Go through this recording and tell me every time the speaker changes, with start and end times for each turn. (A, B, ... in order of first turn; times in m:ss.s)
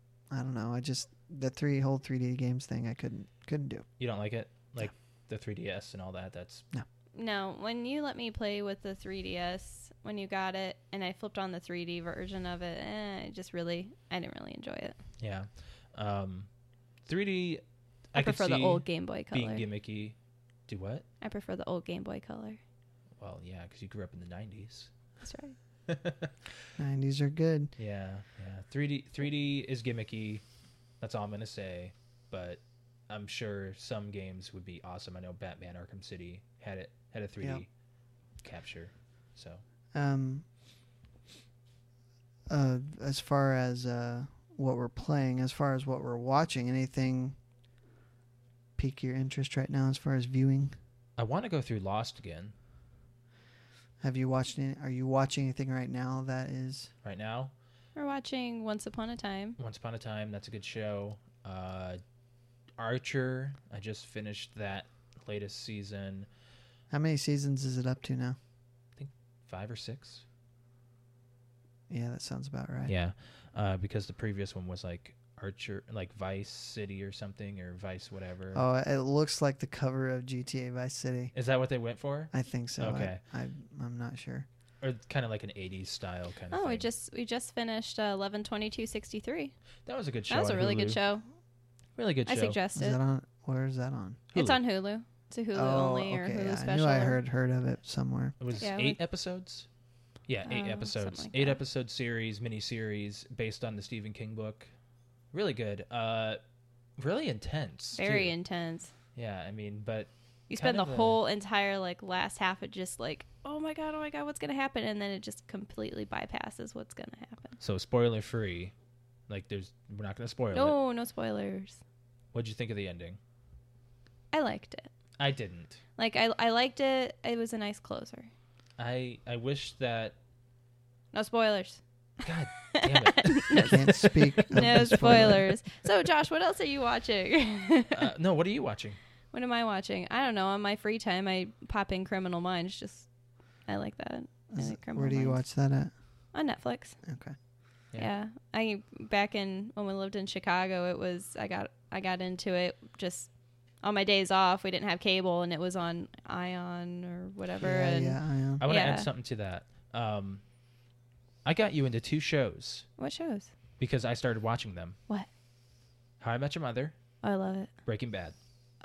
0:00.3-0:03.8 A
0:04.0-0:06.6 B
0:07.1-0:15.0 C
0:15.2-0:16.5 B
0:17.0-0:17.6 B
0:18.1-0:20.1 B
0:18.1-0:19.6 C
0:20.7-0:21.0 B
0:21.2-0:22.6 C
0:23.2-0:24.9 B
0:25.2-0:25.6 C
0:25.9-0:26.3 B
0:26.8-0:27.7 A
0:27.8-0:30.4 B
0:31.0-0:37.7 B
0:38.4-0:39.6 B
0:39.9-0:40.4 A
0:42.5-0:47.4 A
0:48.8-0:50.7 A
0:51.2-0:52.5 B
0:54.0-0:56.9 A
0:57.0-0:57.5 B
0:58.0-0:59.6 C
0:59.6-1:02.0 B
1:02.8-1:06.3 B
1:06.9-1:08.4 A
1:09.0-1:10.2 B
1:11.9-1:12.9 A
1:12.9-1:18.6 B
1:18.5-1:21.3 A
1:21.3-1:23.2 B
1:22.3-1:24.5 A
1:24.8-1:26.9 B
1:26.5-1:29.5 C
1:29.8-1:31.0 B
1:30.3-1:31.2 C
1:32.0-1:32.6 B
1:32.2-1:33.0 C
1:32.7-1:34.2 A
1:34.3-1:34.6 B
1:34.3-1:37.2 C
1:35.5-1:38.3 A
1:38.4-1:39.7 B
1:38.6-1:39.0 C
1:40.3-1:44.7 B
1:40.4-1:41.6 C
1:45.3-1:46.4 B
1:47.0-1:48.3 B
1:48.0-1:48.9 C
1:49.1-1:51.2 B
1:50.5-1:57.6 C
1:57.6-1:58.7 B
1:59.3-2:00.8 B
2:00.5-2:01.8 C
2:02.3-2:03.2 B
2:04.3-2:04.9 C
2:05.2-2:05.8 B
2:06.0-2:08.3 C
2:08.8-2:10.1 B
2:11.1-2:11.8 C
2:12.2-2:14.1 B
2:12.7-2:18.0 C
2:13.6-2:15.5 A
2:17.9-2:19.0 B
2:19.3-2:23.1 C
2:23.7-2:25.4 C
2:24.5-2:25.9 A
2:26.3-2:27.0 C
2:27.0-2:27.3 A
2:28.0-2:33.3 C
2:33.8-2:39.1 C
2:37.6-2:38.6 A
2:38.6-2:40.4 B
2:41.4-2:42.8 B
2:43.0-2:43.5 C
2:43.8-2:45.0 B
2:46.2-2:46.9 B
2:47.2-2:47.7 C
2:47.8-2:48.3 B